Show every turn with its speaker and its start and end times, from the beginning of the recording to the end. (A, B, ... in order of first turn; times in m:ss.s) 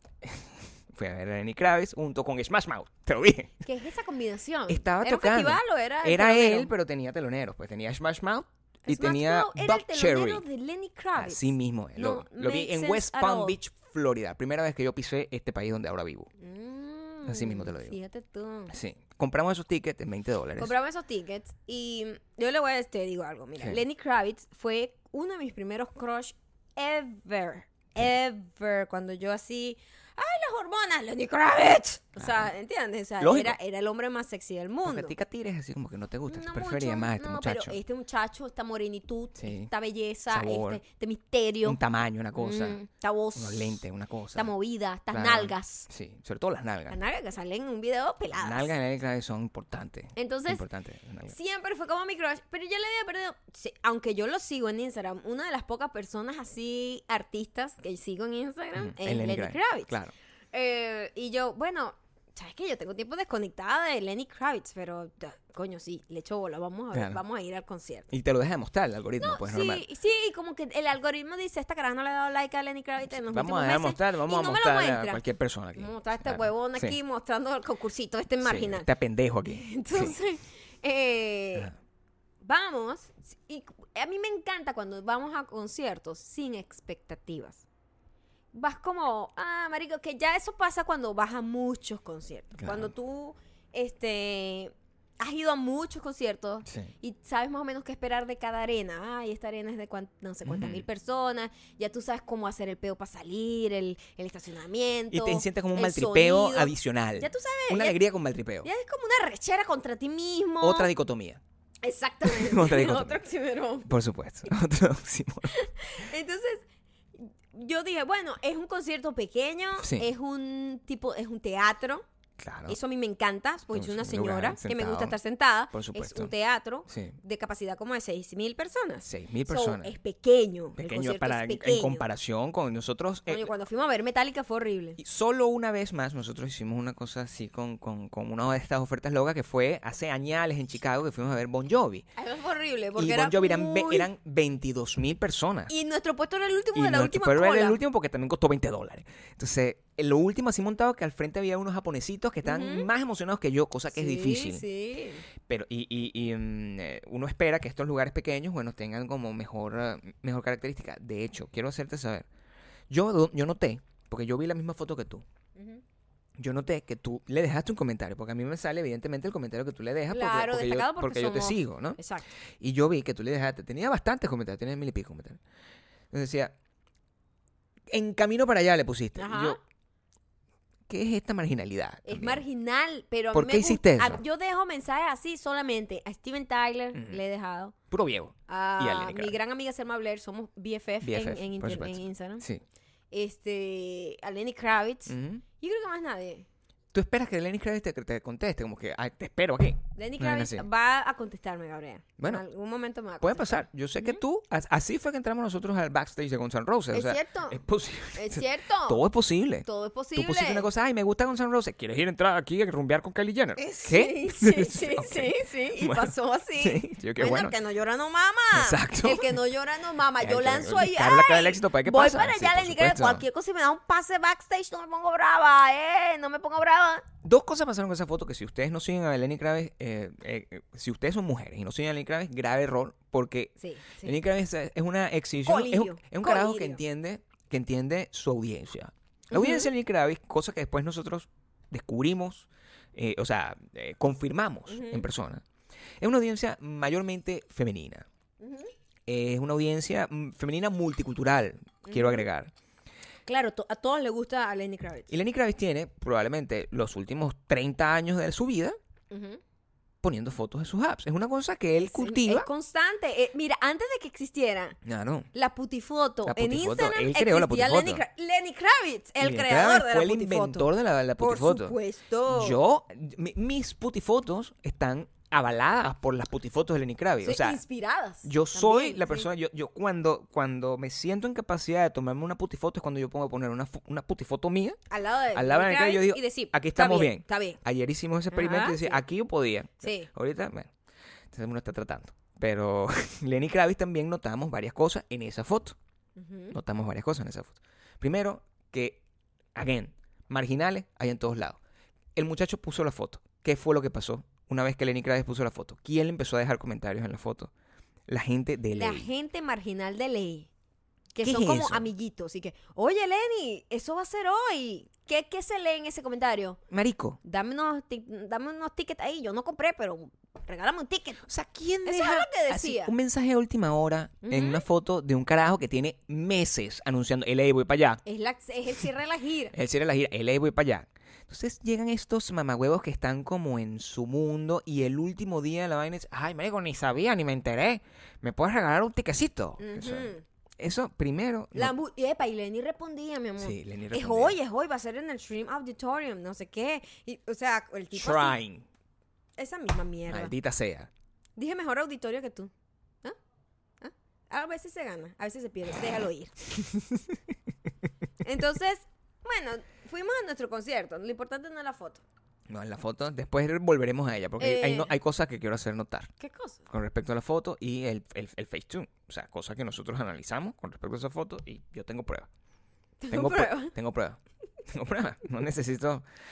0:00.2-0:03.6 A
0:03.6-0:06.7 B
0:04.7-0:10.4 A
0:08.9-0:13.6 B
0:11.2-0:16.3 A
0:16.4-0:18.8 B
0:17.3-0:18.0 A
0:18.7-0:20.7 A
0:20.6-0:35.1 B
0:32.2-0:32.5 A
0:33.2-0:33.6 A
0:34.8-0:37.8 A
0:36.3-0:41.8 B
0:39.4-0:39.7 A
0:40.3-0:40.8 A
0:41.6-0:42.8 A
0:42.4-0:43.8 B
0:43.4-0:44.5 A
0:44.4-0:45.9 B
0:45.1-0:47.0 A
0:46.9-0:48.7 B
0:48.4-0:51.4 A
0:50.2-0:50.6 B
0:51.3-0:59.9 B
0:58.8-1:00.1 A
1:00.5-1:08.1 B
1:06.9-1:07.2 A
1:08.1-1:09.8 A
1:09.2-1:15.2 B
1:13.1-1:17.0 A
1:15.8-1:18.9 B
1:18.4-1:20.2 A
1:19.5-1:21.7 B
1:22.4-1:27.6 B
1:28.5-1:48.0 B
1:32.6-1:32.9 A
1:36.7-1:36.9 A
1:40.4-1:40.8 A
1:45.1-1:48.7 A
1:48.6-1:50.9 B
1:50.6-1:51.4 A
1:51.8-1:53.9 B
1:52.2-1:53.2 A
1:53.9-1:55.5 A
1:55.5-2:02.0 B
1:59.8-2:00.1 A
2:02.4-2:02.8 A
2:02.7-2:12.0 B
2:03.7-2:05.2 A
2:05.7-2:06.3 A
2:06.9-2:07.2 A
2:09.1-2:10.0 A
2:10.8-2:13.5 A
2:13.3-2:15.0 B
2:15.0-2:22.1 A
2:22.2-2:24.1 B
2:23.0-2:25.7 A
2:25.7-2:27.8 B
2:26.8-2:34.6 A
2:32.4-2:32.9 B
2:33.9-2:35.3 B
2:35.5-2:42.3 A
2:42.9-2:45.2 A
2:45.6-2:45.8 B
2:46.4-2:52.0 A
2:50.1-2:52.3 B
2:52.6-2:55.4 A
2:56.1-2:56.5 A
2:57.9-2:59.6 A
2:59.2-2:59.6 B
3:00.9-3:02.4 A
3:02.0-3:07.7 B
3:03.3-3:04.2 A
3:06.9-3:07.2 A
3:07.9-3:09.4 A
3:08.5-3:12.4 B
3:11.0-3:12.6 A
3:13.1-3:16.5 B
3:15.1-3:15.4 A
3:16.9-3:20.7 A
3:20.0-3:24.2 B
3:23.2-3:37.6 A
3:26.9-3:27.6 B
3:28.1-3:29.0 B
3:29.6-3:30.7 B
3:33.6-3:47.1 B
3:38.5-3:39.4 A
3:40.2-3:43.2 A
3:47.2-4:05.4 A
3:53.6-3:54.2 B
3:55.5-3:56.8 B
3:59.3-3:59.7 B
4:04.7-4:05.1 B
4:06.0-4:08.1 A
4:08.4-4:08.7 B
4:09.1-4:12.5 A
4:11.8-4:12.3 B
4:13.3-4:15.1 B
4:15.1-4:18.8 A
4:19.1-4:19.4 B
4:20.0-4:22.5 A
4:21.8-4:24.8 B
4:24.8-4:25.3 A
4:25.3-4:32.6 B
4:26.2-4:28.0 A
4:29.2-4:31.8 A
4:32.3-4:37.6 A
4:37.2-4:39.3 B
4:38.2-4:44.8 A
4:44.9-4:47.6 B
4:45.3-4:50.7 A
4:48.3-4:49.0 B
4:49.8-4:50.1 B
4:51.3-4:55.8 A
4:56.2-4:56.6 B
4:56.5-4:59.0 A
4:59.6-5:01.6 A
5:02.2-5:07.5 A
5:08.1-5:09.1 A
5:08.7-5:10.5 B
5:11.1-5:16.6 B
5:11.2-5:11.9 A
5:16.7-5:17.2 A
5:17.2-5:21.2 B
5:21.2-5:28.0 A
5:21.8-5:22.9 B
5:24.2-5:24.6 B
5:28.0-5:29.6 B
5:29.5-5:41.8 A
5:39.6-5:40.2 B
5:41.5-5:48.4 B
5:43.4-5:44.4 A
5:47.9-5:48.7 A
5:49.4-5:50.3 B
5:50.1-5:50.9 A
5:51.4-5:52.5 B
5:53.8-5:56.3 B
5:58.2-6:02.0 B
6:02.5-6:06.1 A
6:04.4-6:04.9 B
6:06.2-6:06.7 B
6:06.7-6:12.3 A
6:13.0-6:13.7 B
6:13.1-6:16.0 A